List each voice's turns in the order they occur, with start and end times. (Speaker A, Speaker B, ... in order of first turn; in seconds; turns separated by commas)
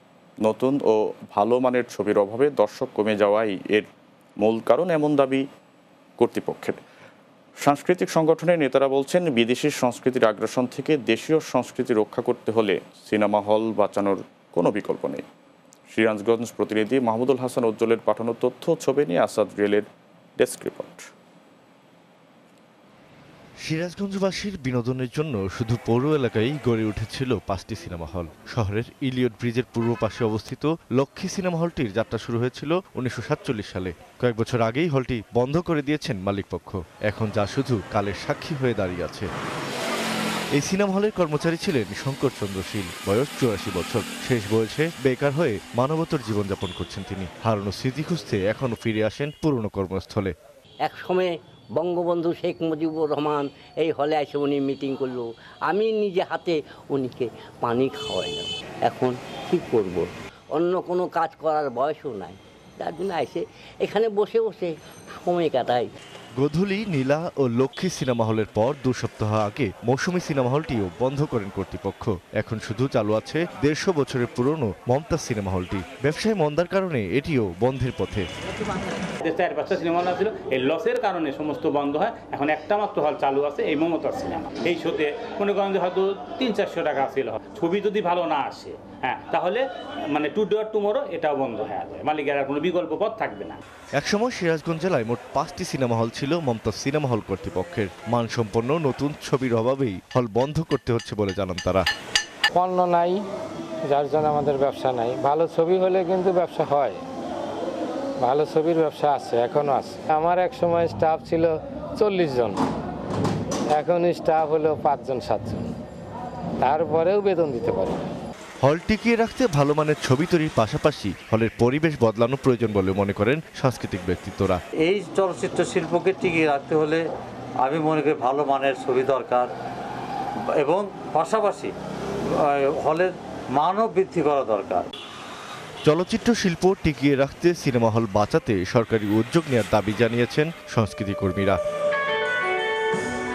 Speaker A: 0.4-3.9, Speaker A: 4.4-5.5, Speaker A: 6.2-6.8, Speaker A: 7.6-15.3, Speaker A: 15.9-19.9, Speaker A: 20.4-21.1, Speaker B: 23.6-39.3, Speaker B: 40.5-50.3, Speaker C: 50.8-65.9, Speaker B: 66.4-78.3, Speaker D: 79.2-93.6, Speaker B: 94.0-101.8, Speaker E: 102.5-103.2, Speaker E: 103.9-107.0, Speaker E: 108.2-112.6, Speaker E: 113.8-115.7, Speaker E: 116.6-118.0, Speaker B: 118.6-124.6, Speaker F: 124.8-127.0, Speaker F: 127.6-129.5, Speaker F: 130.6-131.7, Speaker F: 132.5-134.9, Speaker B: 135.9-141.6